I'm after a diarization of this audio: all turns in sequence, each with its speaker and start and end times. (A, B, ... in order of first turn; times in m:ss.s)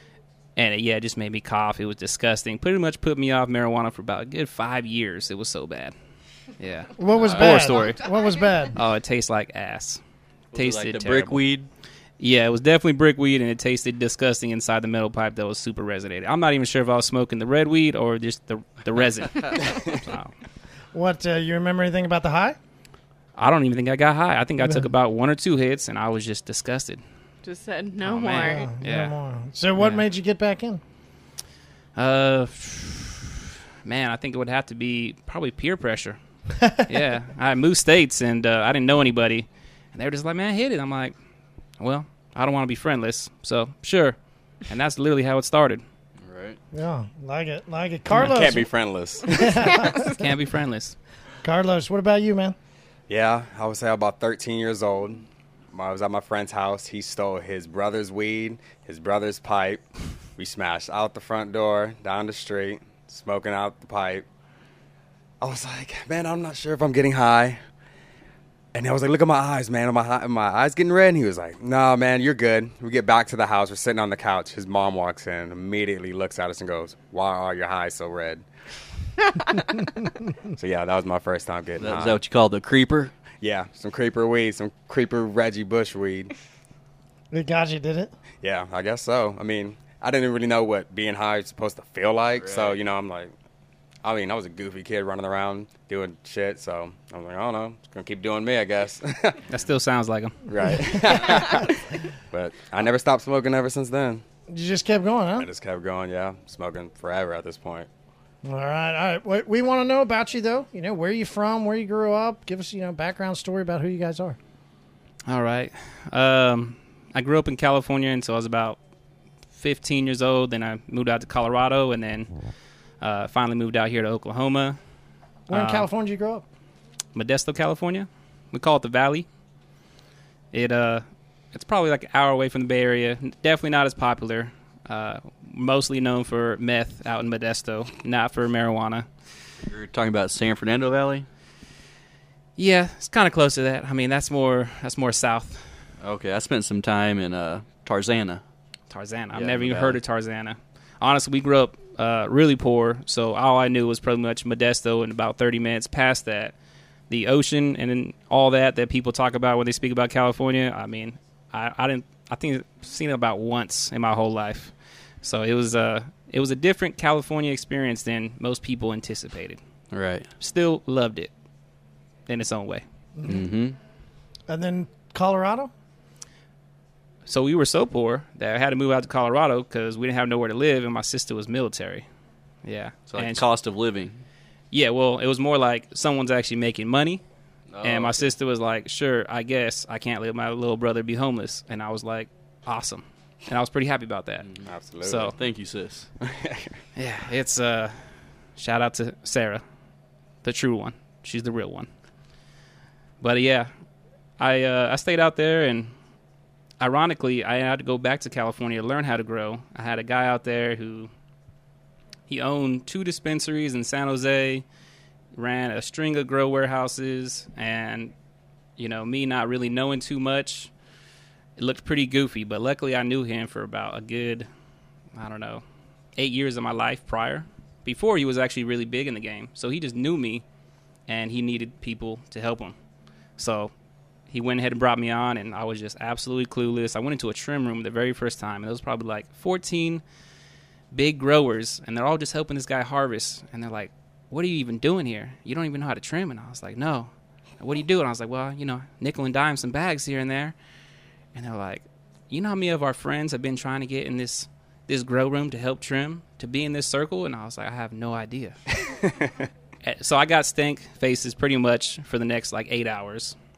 0:00.6-0:05.9 A
0:06.6-0:08.0 A
0:07.0-0:08.8 B
0:08.8-0:10.0 A
0:10.5-0:11.7 C
0:10.5-0:11.4 A
0:12.2-0:20.3 A
0:20.9-0:22.6 B
0:23.4-0:27.0 A
0:24.6-0:24.9 B
0:27.4-0:28.7 D
0:28.0-0:29.1 A
0:28.4-0:30.8 B
0:29.8-0:30.0 A
0:32.0-0:36.2 A
0:36.7-0:41.2 A
0:41.8-0:45.8 A
0:46.2-0:46.6 C
0:46.7-0:48.7 B
0:48.2-0:49.8 E
0:49.4-0:50.1 B
0:49.5-0:50.2 D
0:50.1-0:51.0 A
0:51.4-0:52.6 B
0:53.1-0:59.8 E
1:00.4-1:04.2 E
1:05.4-1:07.6 E
1:08.7-1:18.4 E
1:20.5-1:22.2 E
1:21.8-1:23.1 C
1:23.4-1:26.4 E
1:27.3-1:28.1 B
1:28.4-1:33.3 E
1:32.4-1:32.8 C
1:34.0-1:39.4 E
1:39.5-1:40.5 A
1:40.5-1:44.2 E
1:40.7-1:41.7 B
1:44.5-1:45.5 B
1:45.4-1:47.9 E
1:48.4-1:54.4 B
1:55.3-1:58.8 A
1:59.6-2:02.3 A
2:03.0-2:04.8 A
2:05.5-2:06.4 B
2:05.5-2:05.9 A
2:07.2-2:09.3 A
2:10.5-2:19.1 A
2:19.6-2:21.3 C
2:22.6-2:25.7 A
2:26.0-2:28.4 C
2:28.9-2:36.5 A
2:29.3-2:30.0 C
2:37.1-2:49.6 A
2:49.9-2:50.3 C
2:50.4-2:51.3 A
2:52.3-2:52.8 A
2:53.2-2:53.5 B
2:53.2-2:53.8 C
2:54.5-2:55.7 B
2:57.3-3:02.1 A
3:02.6-3:03.4 A
3:03.1-3:04.2 C
3:04.7-3:07.2 A
3:07.7-3:08.3 C
3:07.8-3:14.5 A
3:14.7-3:15.4 E
3:15.0-3:15.4 A
3:15.3-3:16.1 C
3:16.2-3:16.7 E
3:17.0-3:18.0 A
3:18.6-3:19.6 A
3:20.4-3:21.9 A
3:23.2-3:23.7 A
3:24.4-3:25.9 A
3:26.8-3:31.1 A
3:32.3-3:34.6 A
3:35.3-3:38.1 A
3:38.8-3:40.7 A
3:41.6-3:44.5 A
3:45.2-3:45.6 A
3:46.2-3:50.4 A
3:51.1-3:52.8 A
3:53.4-3:53.7 A
3:54.3-4:00.0 A
4:00.9-4:10.6 A
4:11.3-4:18.6 A
4:19.8-4:23.4 A